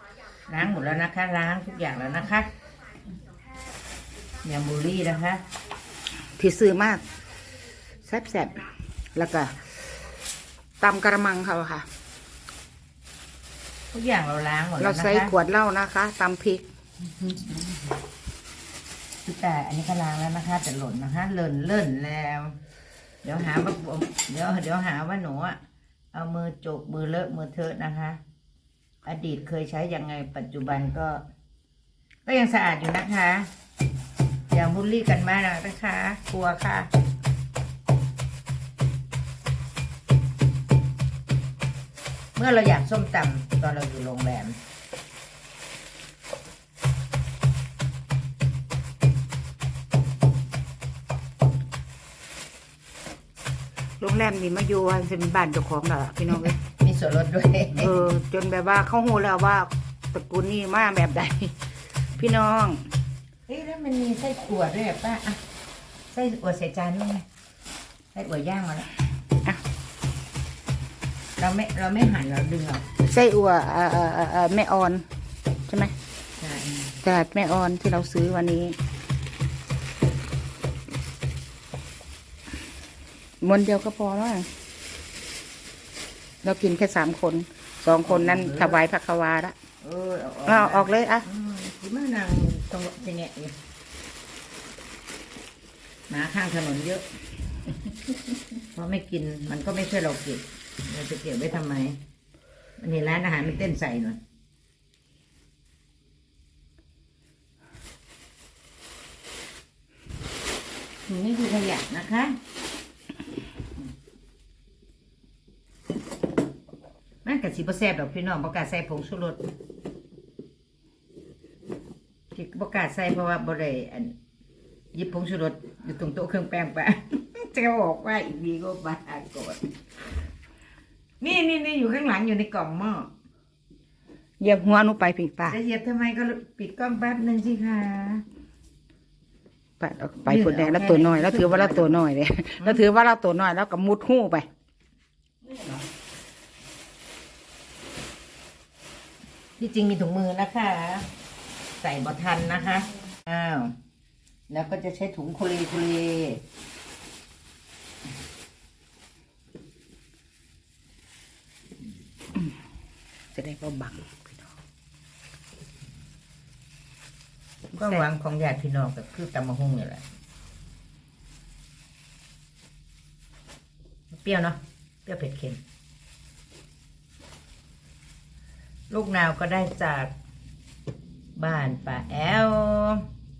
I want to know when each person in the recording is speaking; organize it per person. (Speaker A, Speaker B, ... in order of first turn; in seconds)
Speaker A: 0.5-2.5, 4.4-5.4, 13.9-15.3, 17.2-17.7, 19.2-22.6, 23.2-25.6, 26.1-28.2, 29.0-31.2, 32.2-33.5, 34.5-36.9, 42.4-44.6, 56.5-58.0, 63.5-65.4, 66.1-67.2, 68.1-68.9, 71.4-72.8, 76.4-77.0, 88.0-88.8, 89.8-93.5, 96.1-97.0, 98.7-102.0, 102.8-104.2, 111.1-112.4, 117.2-119.4, 122.3-124.1, 124.9-129.7, 131.2-133.1, 135.5-138.2, 140.3-142.0, 145.5-145.8, 149.6-151.1, 151.8-153.7, 154.5-156.4, 167.7-170.0, 174.1-175.6, 178.9-180.1, 181.3-183.1
Speaker B: 6.4-7.0, 8.1-9.7, 10.8-11.8, 14.8-16.6, 54.0-56.5, 57.8-61.5, 62.2-62.9, 73.0-75.0, 75.7-75.9, 77.0-78.8, 83.4-84.5, 86.4-89.5, 90.5-91.2, 134.4-135.6, 139.8-144.5, 163.3-164.5, 167.7-168.0